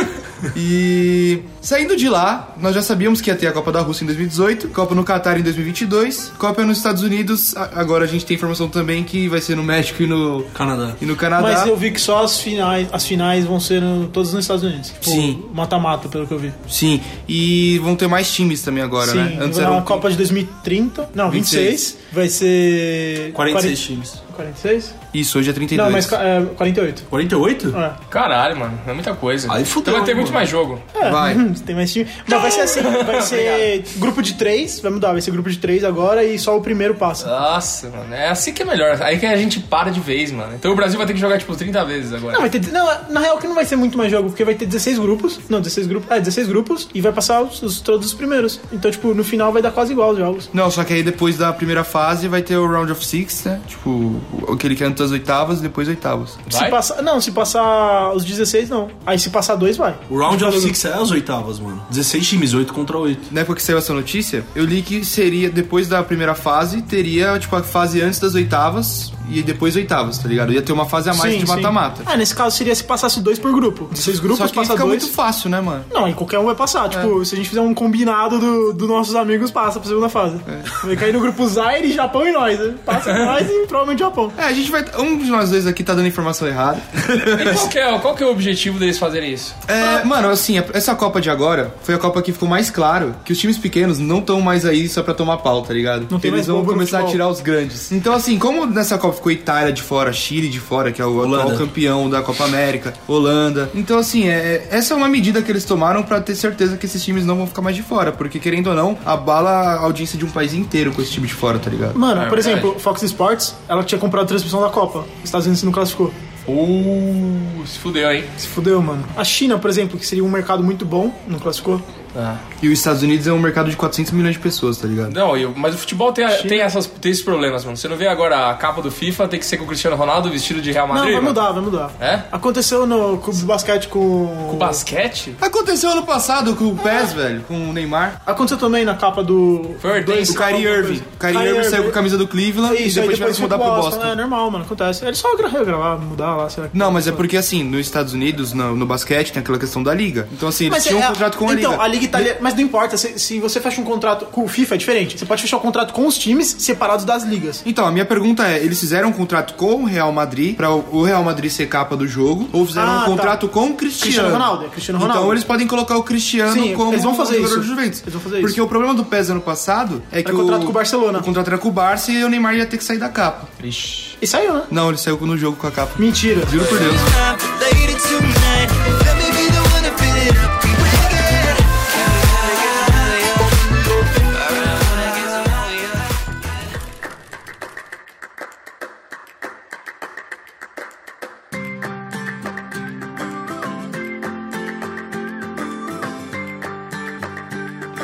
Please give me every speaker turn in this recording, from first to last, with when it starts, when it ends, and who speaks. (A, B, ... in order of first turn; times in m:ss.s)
0:00.5-0:11.7 A
0:10.5-0:11.0 B
0:11.4-0:16.6 C
0:15.0-0:15.4 A
0:16.7-0:20.0 A
0:19.0-0:24.9 C
0:21.3-0:21.8 A
0:23.3-0:24.2 B
0:25.1-0:26.2 A
0:25.7-0:27.1 C
0:27.1-0:27.8 B
0:27.7-0:28.0 C
0:28.1-0:30.8 D
0:29.5-0:30.5 B
0:30.9-0:37.3 C
0:31.0-0:31.4 A
0:32.3-0:33.7 D
0:37.2-0:42.5 D
0:42.3-0:50.5 C
0:50.5-0:56.4 A
0:56.5-0:56.8 D
0:56.5-1:00.7 C
1:00.1-1:03.3 B
1:03.3-1:12.1 A
1:11.1-1:15.1 C
1:14.0-1:15.9 A
1:15.9-1:24.4 C
1:24.4-1:27.7 A
1:27.4-1:29.6 D
1:29.7-1:52.0 A
1:36.1-1:37.2 C
1:41.2-1:41.6 B
1:51.9-1:56.1 C
1:52.1-1:52.7 D
1:56.5-1:58.3 D
1:58.4-2:01.8 C
2:02.1-2:02.4 D
2:02.6-2:05.2 A
2:05.1-2:11.4 D
2:06.3-2:06.7 C
2:10.9-2:14.8 C
2:12.0-2:12.2 D
2:14.5-2:15.4 D
2:15.4-2:18.2 A
2:18.2-2:22.0 C
2:19.8-2:20.4 D
2:20.3-2:24.2 A
2:22.6-2:27.2 C
2:26.7-2:32.3 A
2:30.7-2:37.6 C
2:37.6-2:53.5 A
2:42.7-2:43.4 C
2:44.0-2:45.4 C
2:46.5-2:48.6 C
2:50.2-2:51.3 C
2:53.6-2:54.2 D
2:54.2-2:54.7 C
2:54.7-2:57.1 A
2:56.0-2:56.6 C
2:57.0-3:03.5 E
3:04.4-3:05.9 E